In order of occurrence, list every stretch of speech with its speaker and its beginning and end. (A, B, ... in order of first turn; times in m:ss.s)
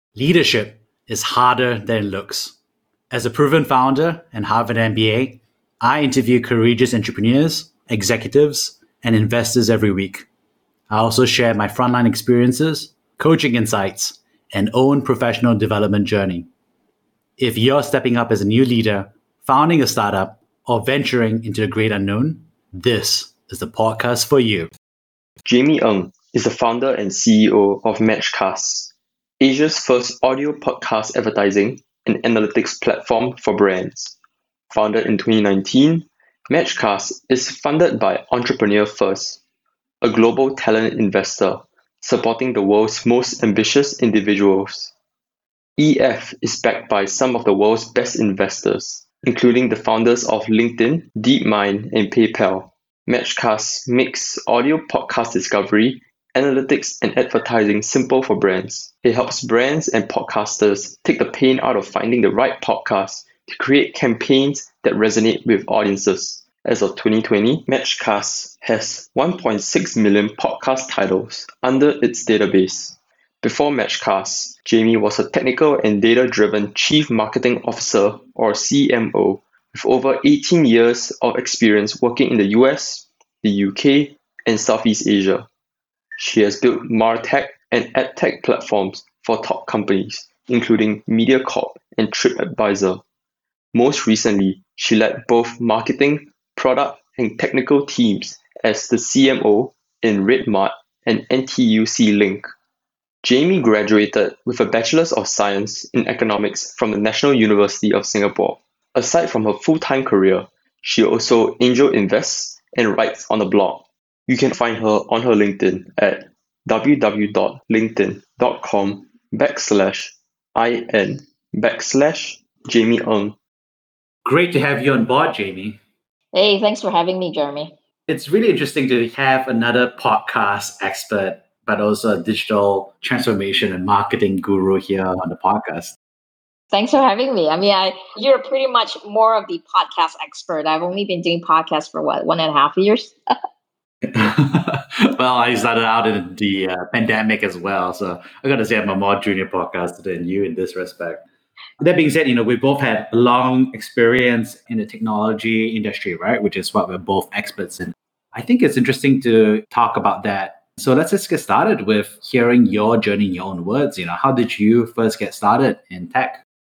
0:00.2-0:02.6 A
0:03.1-0:10.3 A
0:10.9-0:16.5 A
0:17.4-0:24.7 A
0:25.4-0:34.2 B
0:34.7-0:39.4 B
0:40.0-0:44.9 B
0:45.8-1:25.5 B
1:26.2-1:33.0 B
1:33.7-1:42.5 B
1:43.2-2:03.4 B
2:04.2-2:05.8 A
2:06.3-2:07.8 C
2:08.1-2:16.0 A
2:16.7-2:23.2 C
2:24.0-2:31.2 A
2:31.8-2:46.4 A